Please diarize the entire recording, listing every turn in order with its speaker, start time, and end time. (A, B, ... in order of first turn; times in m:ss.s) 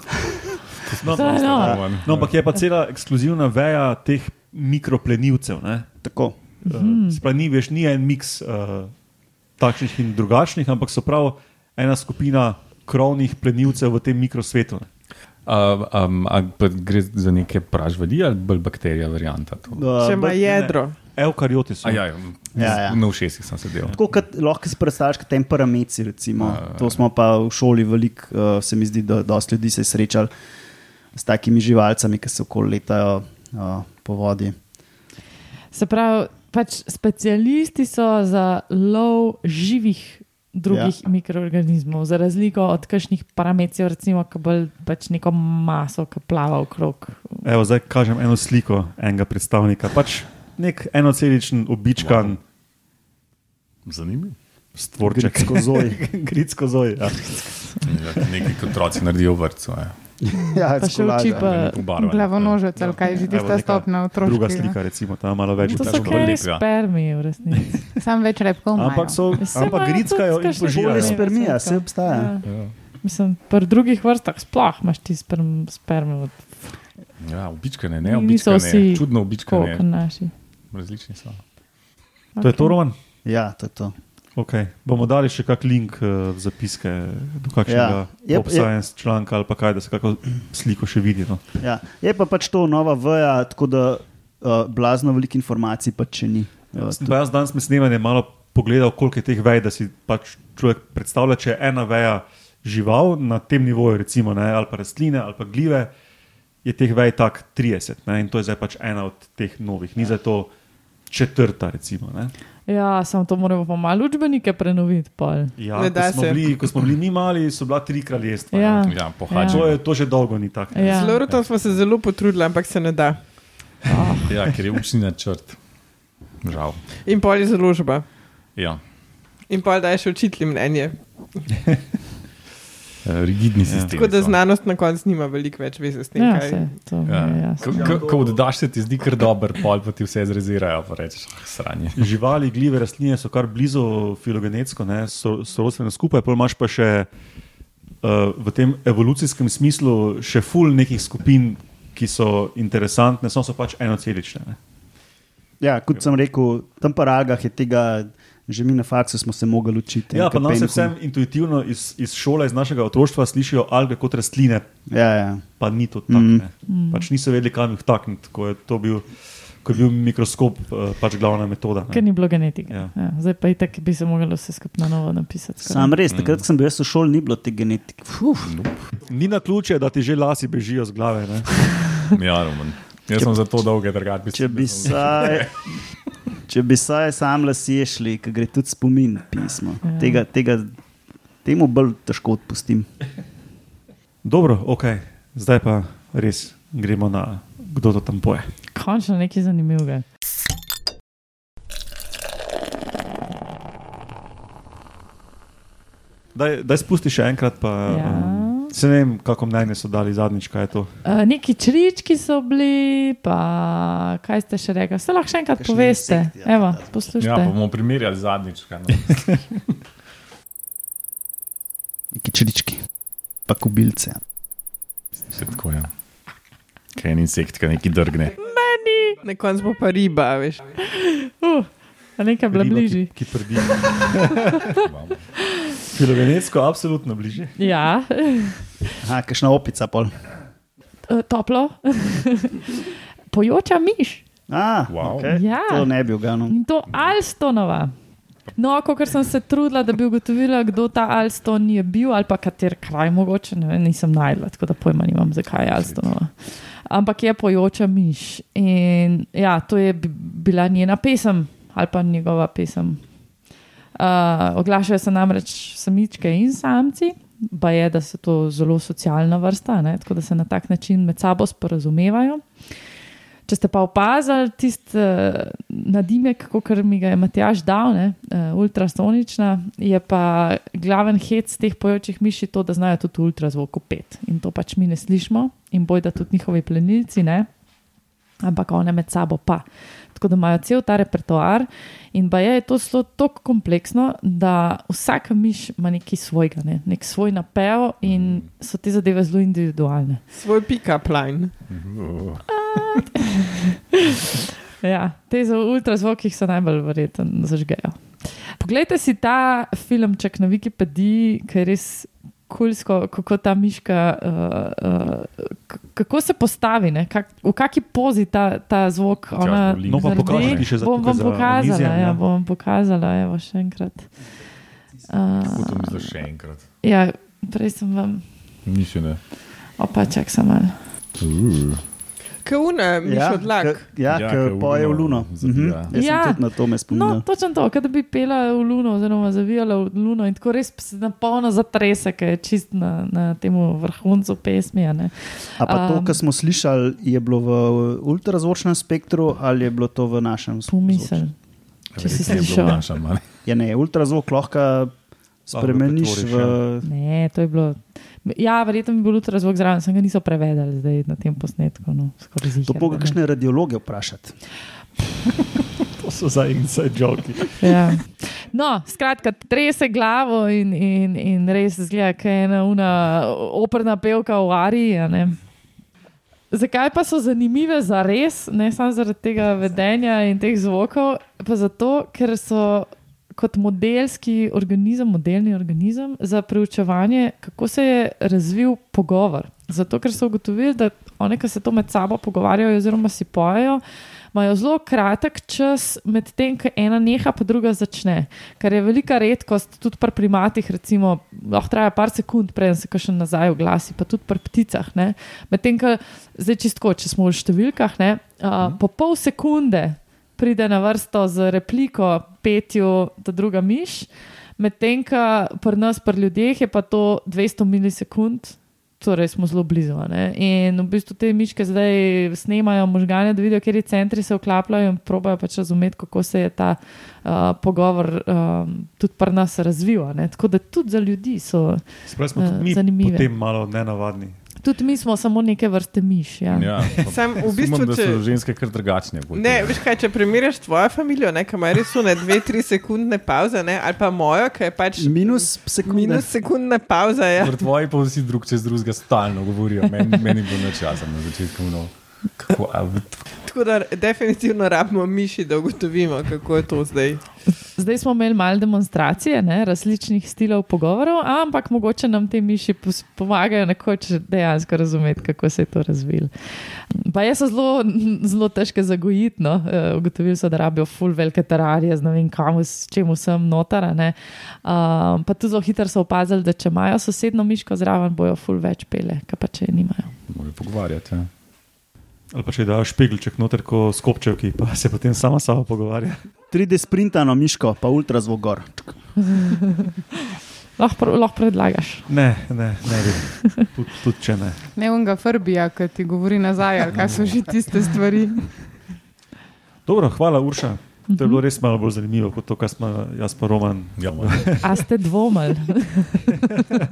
0:00.8-0:02.4 A
0:01.0-0:05.9 B
0:01.1-0:01.8 C
0:06.0-0:06.4 D
0:06.6-0:08.9 B
0:06.6-0:07.2 C
0:09.6-0:14.9 B
0:15.4-0:19.9 A
0:19.7-0:20.4 D
0:20.0-0:20.9 E
0:20.4-0:22.7 B
0:21.8-0:24.0 A
0:22.5-0:23.2 D
0:23.9-0:30.3 D
0:26.4-0:27.0 A
0:31.1-0:34.6 D
0:35.7-0:47.4 C
0:40.7-0:40.9 D
0:47.4-0:52.4 B
0:52.0-0:52.4 A
0:53.8-0:54.4 A
0:54.8-0:58.3 B
0:55.0-0:56.0 D
0:57.8-1:00.1 A
1:00.2-1:01.5 D
1:00.3-1:01.9 C
1:01.3-1:02.7 A
1:01.9-1:04.7 F
1:02.8-1:06.4 B
1:03.0-1:03.3 C
1:05.6-1:07.8 C
1:05.7-1:07.1 A
1:07.6-1:08.0 B
1:08.0-1:09.3 F
1:08.7-1:11.2 B
1:09.4-1:16.6 C
1:10.6-1:12.3 D
1:12.4-1:12.8 A
1:17.2-1:20.1 A
1:18.0-1:20.3 C
1:20.7-1:21.4 A
1:22.3-1:22.8 C
1:22.4-1:23.0 B
1:23.2-1:23.9 D
1:24.4-1:31.4 B
1:27.6-1:28.7 D
1:31.6-1:37.1 D
1:36.8-1:45.9 B
1:46.6-1:50.5 B
1:51.1-1:52.3 B
1:52.7-1:55.6 C
1:55.6-2:01.0 B
1:55.7-1:56.4 E
1:58.5-1:59.8 C
1:58.8-2:00.0 A
2:00.7-2:01.3 C
2:00.9-2:03.8 E
2:01.2-2:01.7 A
2:03.8-2:04.3 C
2:04.2-2:05.6 A
2:06.4-2:06.8 A
2:07.0-2:08.1 E
2:08.5-2:08.9 A
2:09.5-2:11.5 E
2:13.0-2:14.4 A
2:13.6-2:13.9 B
2:13.9-2:16.8 E
2:16.2-2:17.9 C
2:17.0-2:22.1 A
2:22.0-2:27.1 B
2:28.0-2:34.6 B
2:35.6-2:40.9 D
2:40.1-2:44.7 B
2:44.9-2:45.4 D
2:45.6-2:52.9 B
2:46.1-2:46.4 D
2:46.7-2:47.1 C
2:51.9-2:55.9 C
2:55.6-2:58.5 D
2:56.1-2:56.4 A
2:58.4-2:58.9 A
2:59.0-3:01.8 B
3:02.1-3:05.5 A
3:04.3-3:05.5 D
3:06.5-3:10.7 D
3:09.8-3:10.2 C
3:11.4-3:12.9 D
3:14.2-3:18.5 B
3:18.7-3:20.0 C
3:26.3-3:31.0 B
3:27.9-3:28.7 C
3:28.1-3:28.4 A
3:31.0-3:37.6 C
3:35.6-3:37.0 D
3:37.2-3:39.6 A
3:42.1-3:42.9 D
3:43.4-3:44.2 D
3:45.2-3:46.0 A
3:46.9-3:48.4 A
3:48.4-3:49.2 C
3:49.2-3:50.6 E
3:50.8-3:53.1 C
3:52.5-3:54.5 B
3:54.8-3:55.2 A
3:55.9-3:57.6 B
3:57.6-3:58.8 C
3:59.0-4:00.1 D
4:01.1-4:02.8 C
4:03.3-4:04.2 C
4:04.5-4:06.6 D
4:04.9-4:05.4 A
4:05.2-4:07.9 C
4:08.5-4:23.2 C
4:15.6-4:16.1 A
4:23.9-4:32.9 C
4:33.4-4:47.5 C
4:48.4-5:00.2 C
4:58.0-4:58.5 A
5:00.3-5:01.6 E
5:01.6-5:02.4 A
5:02.5-5:04.3 C
5:04.8-5:24.1 C
5:19.4-5:20.8 A
5:19.8-5:22.2 B
5:25.1-5:26.2 C
5:25.4-5:26.7 A
5:26.8-5:28.3 C
5:28.6-5:29.2 A
5:29.8-5:30.8 C
5:31.2-5:31.8 A
5:32.4-5:33.9 E
5:33.0-5:37.2 D
5:34.0-5:35.9 A
5:35.9-5:46.2 C
5:45.6-5:51.2 D
5:50.7-5:51.4 C
5:51.9-5:53.2 A
5:52.0-5:52.9 C
5:52.1-5:52.4 D
5:53.4-5:54.9 D
5:55.5-5:56.9 D
5:55.5-5:56.6 B
5:56.8-6:03.2 C
6:02.6-6:04.4 D
6:06.0-6:07.7 B
6:07.6-6:15.4 C
6:16.5-7:13.3 C
7:12.1-7:14.4 B
7:14.6-7:16.9 C
7:16.5-7:19.9 A
7:16.9-7:18.2 E
7:19.3-7:27.6 E
7:25.0-7:26.3 D
7:27.4-7:33.3 A
7:33.3-7:37.4 E
7:37.6-8:00.2 C
8:00.3-8:01.3 A
8:02.3-8:06.2 B
8:06.5-8:09.3 D
8:09.4-8:09.8 C
8:10.8-8:12.1 C
8:12.1-8:14.7 B
8:14.8-8:18.6 F
8:17.0-8:17.3 A
8:19.8-8:24.7 B
8:21.1-8:21.4 C
8:24.0-8:24.6 A
8:24.6-8:26.3 C